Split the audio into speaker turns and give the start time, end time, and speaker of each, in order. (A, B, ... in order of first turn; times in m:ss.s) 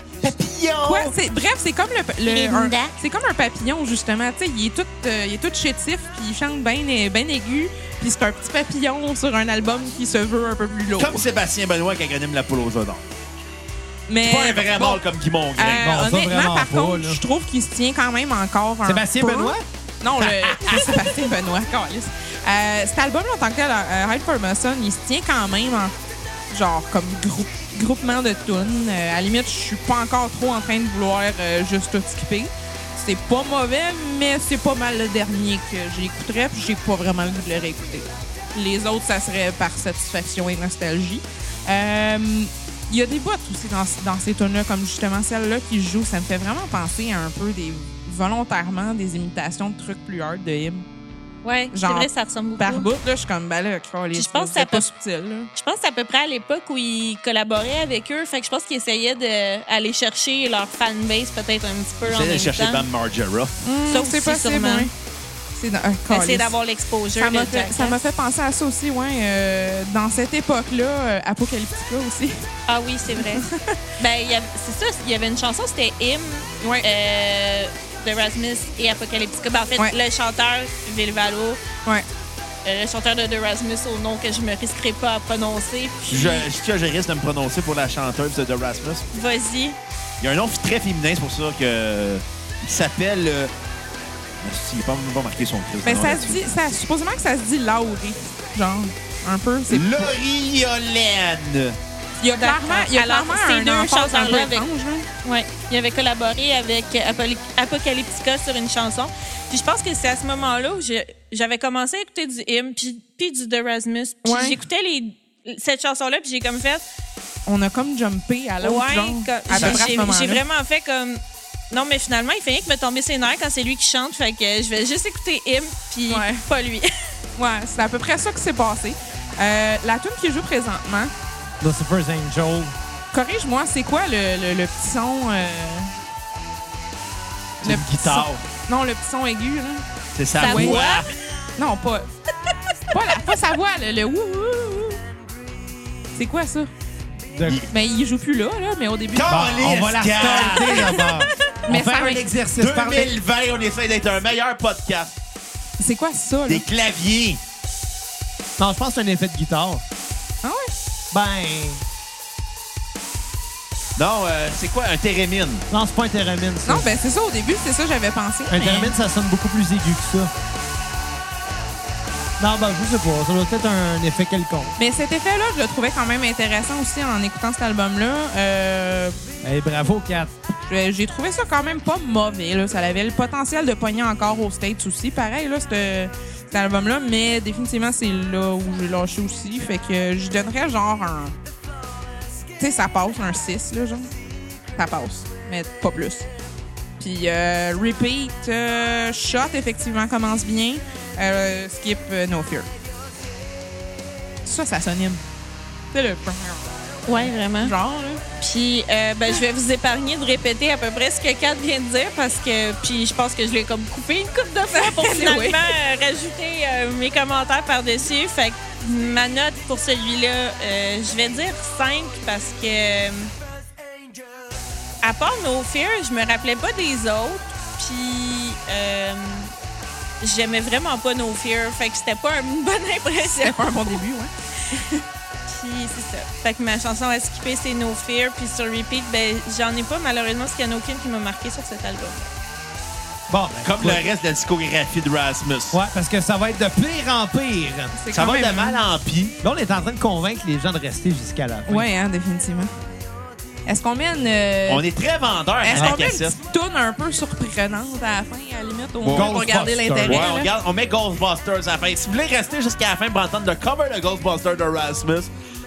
0:00.2-0:01.1 A
0:00.8-0:11.2 B
0:02.3-0:02.9 C
0:11.0-0:13.0 A
0:14.1-0:15.0 B
0:14.2-0:16.0 A
0:15.6-0:25.9 B
0:15.8-0:17.2 D
0:18.8-0:19.6 D
0:20.2-0:21.0 D
0:26.5-0:50.8 B
0:51.4-0:52.9 C
0:51.7-0:55.5 B
0:54.1-0:54.9 C
0:55.5-1:02.8 C
1:02.0-1:03.6 A
1:03.6-1:04.9 B
1:03.9-1:04.9 C
1:05.6-1:06.5 B
1:06.1-1:08.0 C
1:07.2-1:12.4 B
1:12.7-1:13.4 C
1:13.2-1:13.7 B
1:14.0-1:21.6 C
1:16.6-1:16.9 B
1:22.6-1:26.4 C
1:26.1-1:29.0 A
1:29.1-1:29.8 C
1:30.2-1:33.5 A
1:34.4-1:36.4 A
1:35.8-1:40.1 B
1:39.7-1:41.8 A
1:42.2-1:45.1 B
1:42.3-1:44.6 C
1:45.2-1:56.8 C
1:54.2-1:54.6 B
1:57.5-2:00.4 B
1:58.6-2:06.9 C
1:59.5-1:59.8 A
2:06.1-2:06.4 B
2:07.4-2:11.1 B
2:11.6-2:12.7 D
2:13.1-2:15.9 B
2:17.6-2:18.4 A
2:17.6-2:19.8 B
2:20.1-2:21.1 A
2:20.4-2:21.1 C
2:20.4-2:20.9 B
2:21.6-2:22.1 B
2:22.9-2:25.0 B
2:26.1-2:26.7 B
2:27.3-2:27.6 D
2:27.4-2:27.7 A
2:27.7-2:29.5 B
2:29.1-2:30.9 A
2:29.3-2:33.1 D
2:30.2-2:32.2 B
2:32.6-2:35.1 A
2:35.8-2:36.6 B
2:36.5-2:37.4 A
2:38.6-2:39.8 D
2:40.4-2:40.7 B
2:41.1-2:41.8 D
2:44.0-2:45.6 A
2:45.7-2:46.9 D
2:46.6-2:48.9 B
2:48.5-2:50.3 D
2:52.4-2:54.8 D
2:54.8-2:59.2 B
2:59.4-3:00.3 D
3:00.7-3:11.4 B
3:12.6-3:14.1 B
3:14.7-3:16.3 B
3:17.0-3:22.7 B
3:24.4-3:25.2 B
3:25.9-3:26.7 B
3:27.1-3:27.7 C
3:27.2-3:28.2 B
3:28.4-3:43.3 C
3:34.7-3:35.7 B
3:45.0-3:49.5 C
3:50.2-3:54.0 C
3:53.4-3:55.0 B
3:55.5-4:02.3 C
4:03.3-4:04.1 D
4:03.6-4:05.8 A
4:05.7-4:08.6 D
4:07.9-4:08.8 B
4:08.1-4:09.4 A
4:09.4-4:11.9 D
4:11.7-4:12.7 B
4:13.6-4:14.8 B
4:14.7-4:16.4 A
4:15.6-4:20.5 B
4:19.0-4:19.3 A
4:19.1-4:20.3 D
4:20.0-4:25.3 A